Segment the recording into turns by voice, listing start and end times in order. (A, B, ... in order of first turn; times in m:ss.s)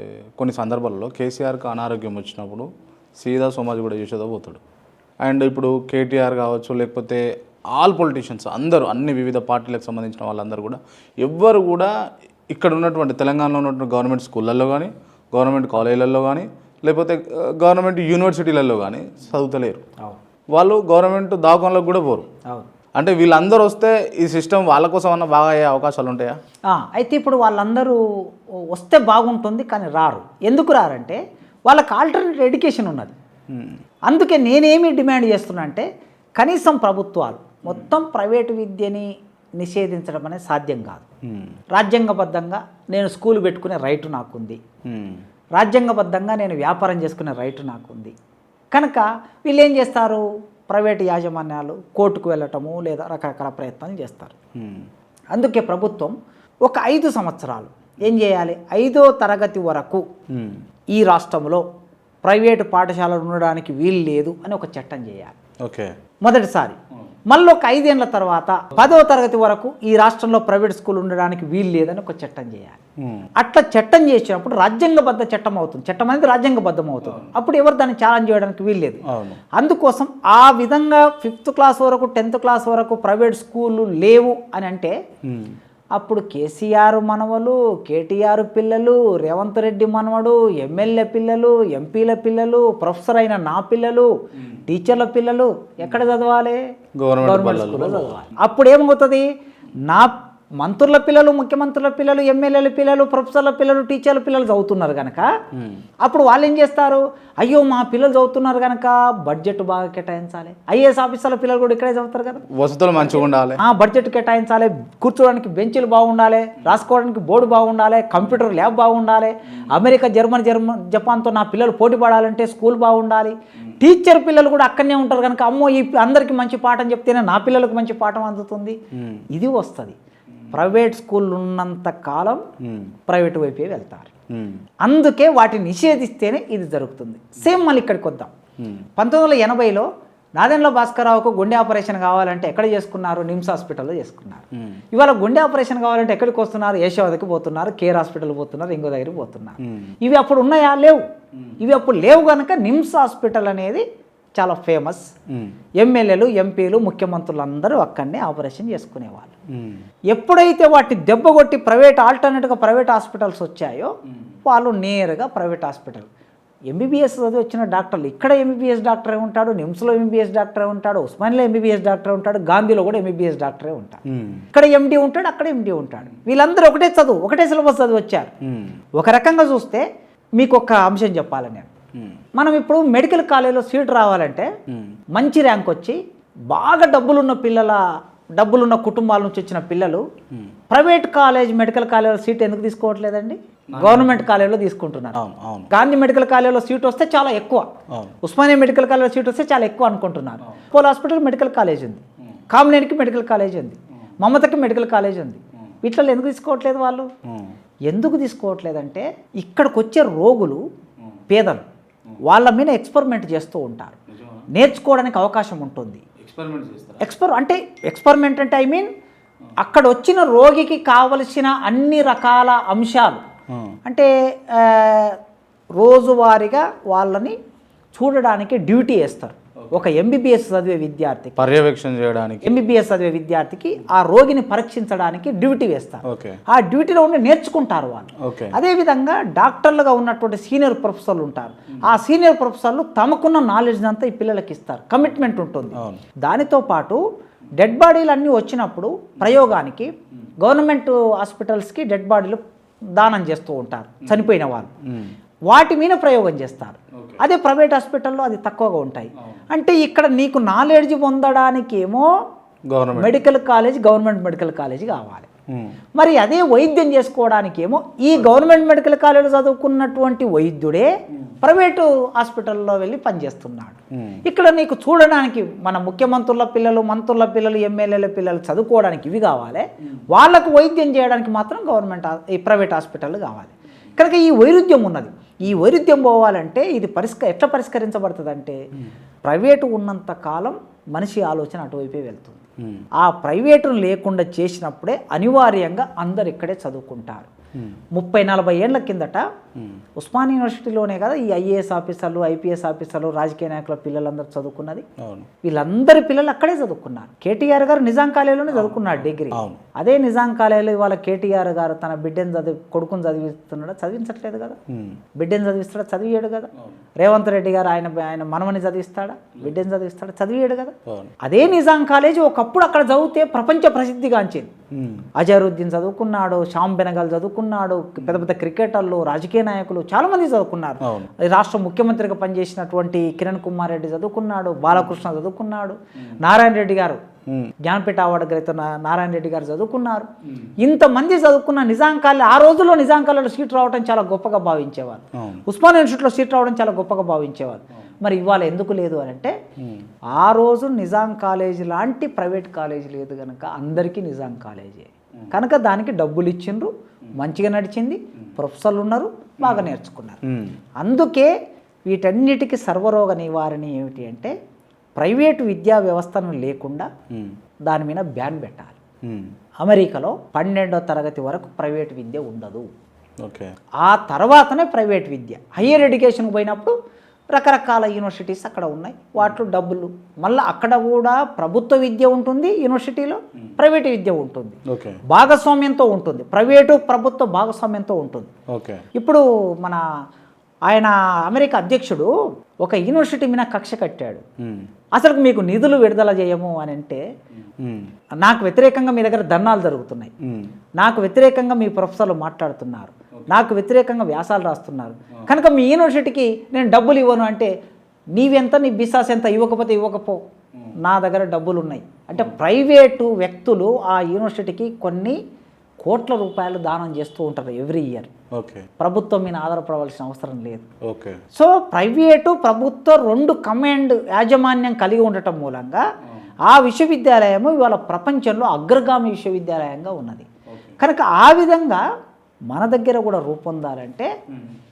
0:00.4-0:04.6 A
0:05.2-0:11.9 A
0:12.5-0:19.8 A
0:20.5-0:22.2 A
0:23.0-0:26.4 A
0:26.7-0:28.0 B
0:28.7-0:33.1 B
0:34.1-0:35.8 B
0:36.4-0:39.1 B
0:39.6-0:41.0 B
0:41.3-0:41.5 A
0:41.7-0:44.6 B
0:44.9-0:45.2 A
0:45.6-0:48.1 B
0:48.7-0:54.3 B
0:54.6-0:54.9 A
0:55.3-1:00.0 B
1:00.3-1:00.6 A
1:00.9-1:01.6 B
1:02.2-1:05.3 B
1:05.6-1:05.9 A
1:06.2-1:06.8 B
1:07.3-1:12.8 B
1:13.0-1:13.3 A
1:13.4-1:19.0 B
1:17.0-1:17.3 A
1:19.1-1:19.4 A
1:19.6-1:25.0 B
1:25.2-1:25.6 A
1:26.0-1:34.1 B
1:34.7-1:36.6 B
1:37.0-1:38.2 A
1:37.2-1:39.3 B
1:39.8-1:45.3 B
1:46.0-1:52.4 B
1:52.5-1:53.6 A
1:53.0-2:08.8 B
2:09.0-2:09.2 A
2:09.3-2:10.0 B
2:10.5-2:12.4 B
2:12.6-2:12.9 A
2:13.1-2:14.1 B
2:14.3-2:14.6 A
2:14.8-2:18.3 B
2:19.0-2:31.0 B
2:29.6-2:29.9 A
2:31.6-2:33.8 B
2:34.4-2:35.1 B
2:35.8-2:39.3 B
2:39.5-2:39.8 A
2:40.1-2:43.9 B
2:44.4-2:46.1 B
2:46.7-2:54.0 B
2:54.1-2:54.4 A
2:54.5-2:58.3 B
2:58.4-2:58.8 A
2:59.0-2:59.8 B
3:00.4-3:01.7 B
3:02.3-3:04.5 B
3:04.7-3:05.0 A
3:05.1-3:06.0 B
3:06.5-3:07.8 B
3:08.4-3:10.0 B
3:10.7-3:15.2 B
3:13.7-3:14.2 A
3:15.2-3:15.7 A
3:15.7-3:17.7 B
3:18.2-3:27.1 B
3:27.3-3:27.5 A
3:27.9-3:30.6 B
3:31.3-3:31.6 B
3:32.2-3:34.0 B
3:34.1-3:34.4 A
3:34.5-3:36.0 B
3:36.2-3:37.1 A
3:37.0-3:38.9 B
3:39.6-3:43.2 B
3:43.8-3:45.2 B
3:45.8-3:47.4 B
3:47.9-3:51.4 B
3:51.4-3:52.7 A
3:52.4-4:07.0 B
3:56.0-3:56.4 A
3:58.2-3:58.5 A
4:05.8-4:06.0 A
4:07.6-4:09.9 B
4:10.4-4:12.4 B
4:13.0-4:14.7 B
4:14.9-4:15.2 A
4:15.5-4:22.1 B
4:22.7-4:23.2 A
4:22.9-4:25.3 B
4:26.0-4:30.9 B
4:31.4-4:48.6 B
4:34.0-4:34.2 A
4:49.2-4:52.4 B
4:53.0-4:57.3 B
4:57.9-4:59.2 B
5:00.0-5:04.8 B
5:05.0-5:05.3 A
5:05.4-5:14.6 B
5:08.5-5:09.6 A
5:14.7-5:15.0 A
5:15.2-5:24.5 B
5:20.8-5:21.1 A
5:24.7-5:25.0 A
5:25.2-5:37.0 B
5:37.6-5:40.1 B
5:40.6-5:49.3 B
5:50.1-6:00.2 B
6:00.3-6:00.6 A
6:00.8-6:01.3 B
6:01.9-6:04.3 B
6:05.0-6:06.9 B
6:07.6-6:08.8 B
6:09.6-6:12.7 B
6:13.2-6:13.5 A
6:13.8-6:16.7 B
6:17.3-6:24.6 B
6:24.7-6:25.0 A
6:25.1-6:28.3 B
6:28.5-6:28.8 A
6:28.9-6:29.8 B
6:30.7-6:32.1 B
6:32.6-6:34.2 B
6:34.9-6:37.0 B
6:37.6-6:37.9 A
6:38.2-6:40.1 B
6:40.2-6:40.5 A
6:40.8-6:47.5 B
6:48.1-6:50.2 B
6:50.8-6:55.2 B
6:55.8-6:58.1 B
6:58.3-6:58.7 A
6:58.8-7:00.6 B
7:00.8-7:01.2 A
7:01.3-7:05.8 B
7:06.4-7:10.2 B
7:10.5-7:10.8 A
7:10.8-7:11.8 B
7:12.5-7:14.1 B